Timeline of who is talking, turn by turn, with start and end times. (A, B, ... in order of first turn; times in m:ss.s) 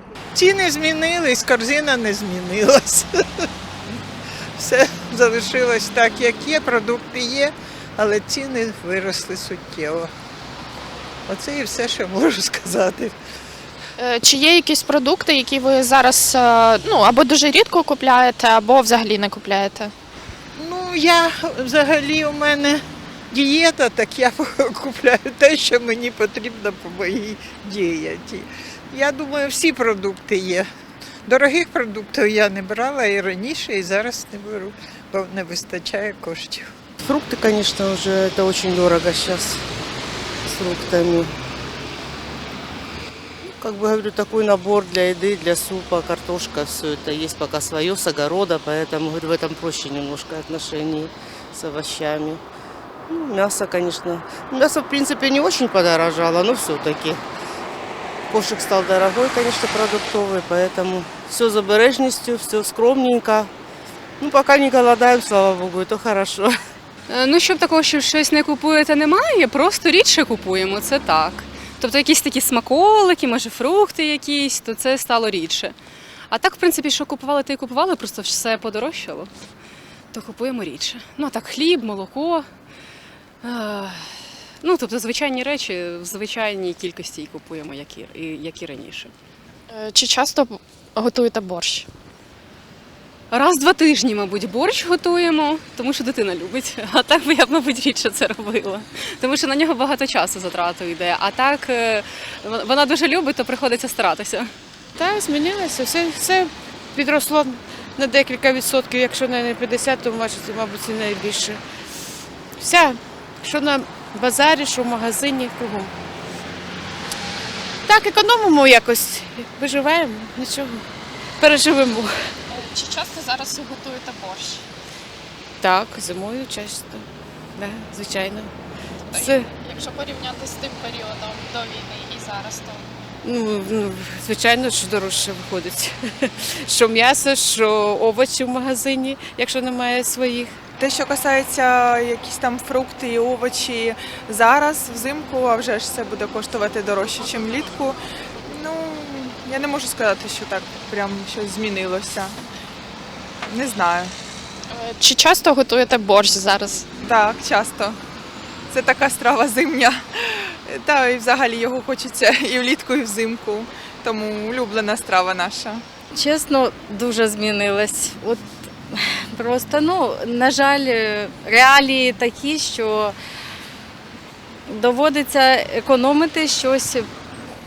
0:00.3-0:03.5 A
0:04.6-0:10.1 A
0:11.3-0:13.1 A
0:14.0-0:19.9 B
0:20.6-0:30.7 A
0:31.2-0:36.7 A
0:37.0-0:39.6 C
0:40.4-0:41.3 C
0:43.4-0:52.4 C
0:53.1-0:57.2 C
0:58.3-1:03.5 C
1:04.2-1:06.5 C
1:07.1-1:15.7 D
1:16.3-1:19.3 D
1:20.1-1:22.5 D
1:23.4-1:29.1 D
1:29.7-1:31.9 B
1:33.3-1:44.5 D
1:45.0-1:51.6 E
1:52.6-1:55.9 E
1:57.8-2:00.8 E
2:01.4-2:02.3 E
2:02.5-2:04.6 B
2:05.6-2:08.5 E
2:09.1-2:12.9 B
2:09.2-2:09.5 E
2:13.2-2:20.6 E
2:20.8-2:32.3 F
2:33.5-2:34.1 F
2:34.7-2:36.8 B
2:37.0-2:38.0 F
2:38.7-2:45.8 F
2:46.1-2:53.1 G
2:54.7-2:57.1 G